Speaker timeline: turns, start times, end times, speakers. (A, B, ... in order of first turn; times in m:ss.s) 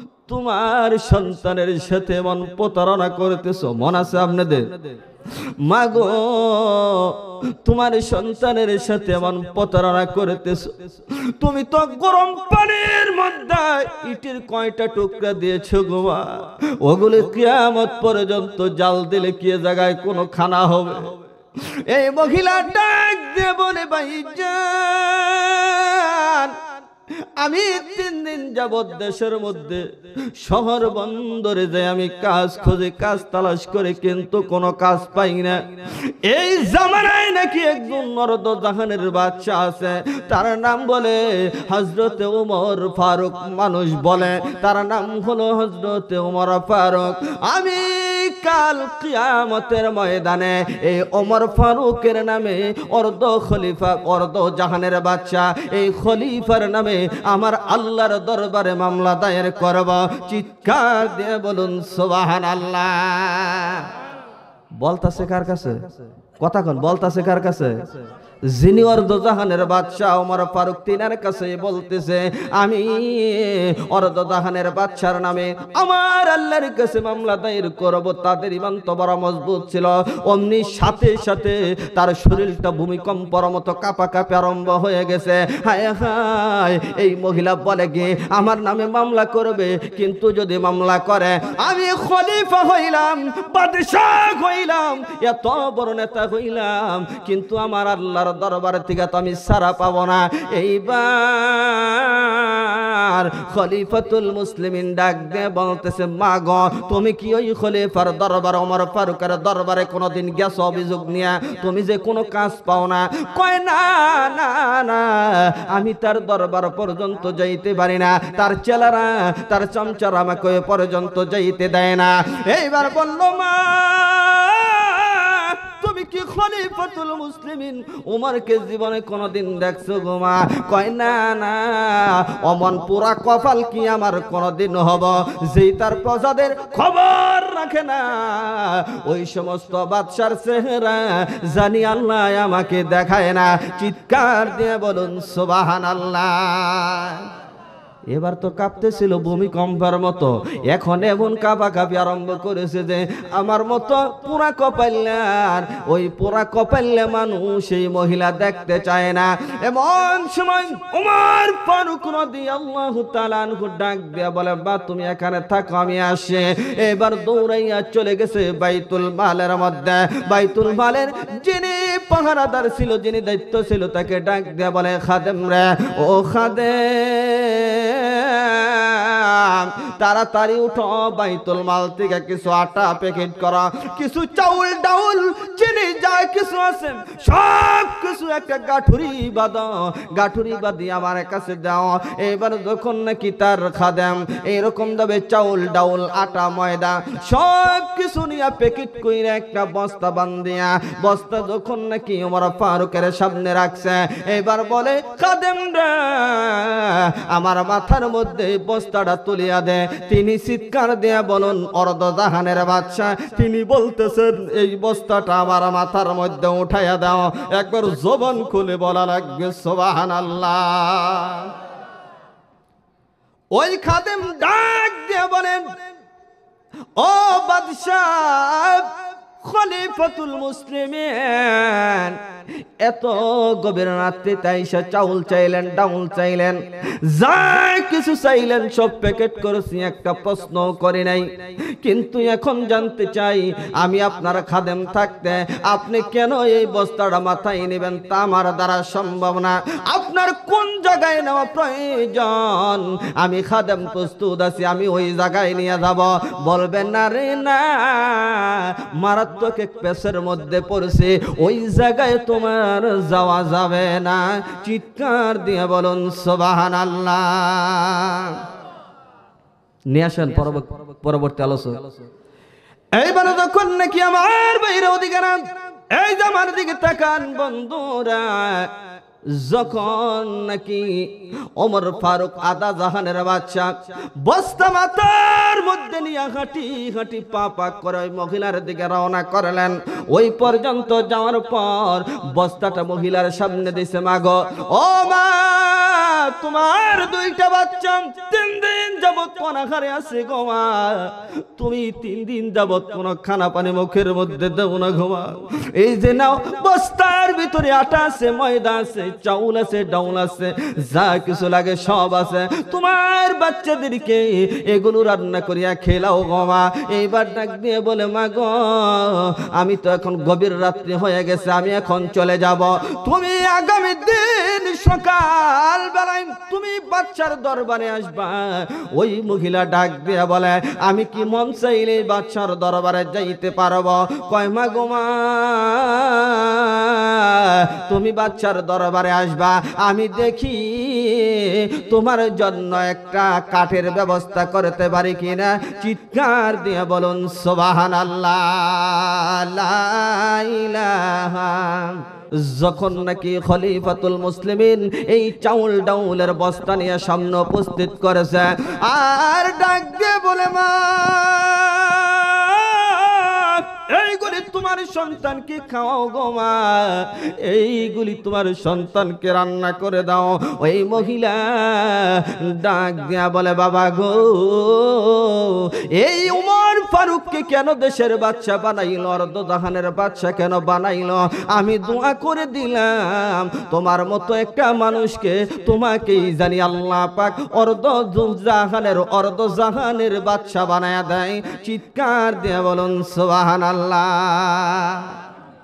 0:00.2-0:26.6 A
0:27.4-1:03.9 A
1:04.8-2:27.3 A
2:28.1-3:41.5 A
3:43.5-3:45.8 A
3:47.0-3:52.2 A
3:52.8-4:28.4 A
4:29.9-4:31.9 A
4:32.9-6:35.2 A